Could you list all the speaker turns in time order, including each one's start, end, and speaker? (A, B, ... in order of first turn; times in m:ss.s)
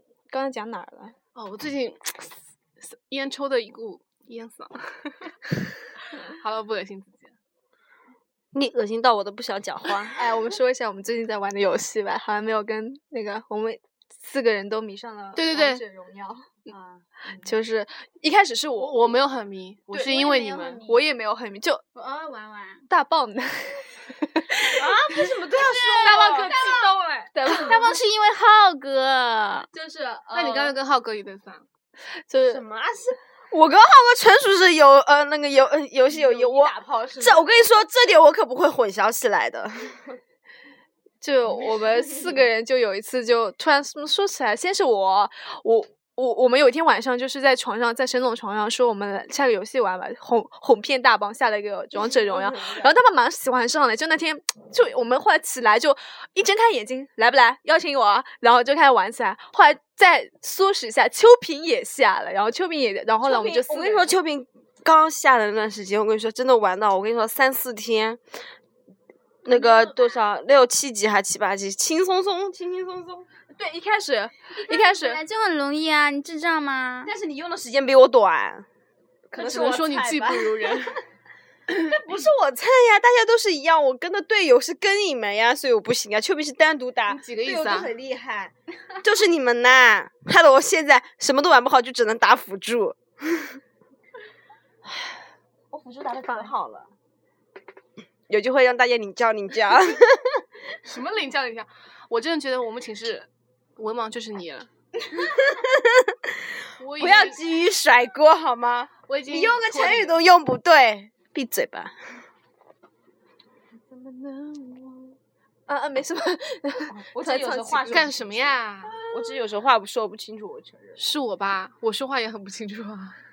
0:00.3-0:01.1 A
0:01.3-0:05.3 B
0:06.3-0:07.3 B
0:08.5-0:10.2 C
0:10.2-0:16.5 A
0:15.4-0:15.8 B
0:17.2-0:19.2 A
0:18.8-0:20.8 B
0:19.9-0:21.8 A
0:20.2-0:21.1 D
0:21.9-0:22.9 D
0:22.9-0:24.9 A
0:24.7-0:26.6 C
0:25.7-0:29.7 D
0:26.0-0:28.0 A
0:29.7-0:30.7 A
0:30.3-0:31.6 B
0:32.3-0:32.6 A
0:32.4-0:40.0 C
0:36.1-0:37.4 A
0:41.2-1:04.1 A
0:52.0-0:52.9 C
1:03.2-1:08.2 C
1:09.4-1:13.3 C
1:13.5-1:15.2 A
1:14.6-1:17.1 D
1:17.0-1:18.7 C
1:19.3-1:21.0 C
1:19.3-1:21.0 B
1:21.7-1:33.6 C
1:27.1-1:27.9 B
1:35.7-1:36.9 C
1:38.3-1:40.4 C
1:40.8-1:44.7 B
1:45.1-1:46.3 C
1:46.8-1:47.4 B
1:47.0-1:52.0 C
1:49.1-1:50.2 B
1:53.9-1:58.1 A
1:56.9-2:01.0 C
1:57.9-1:59.0 B
2:01.0-2:03.2 B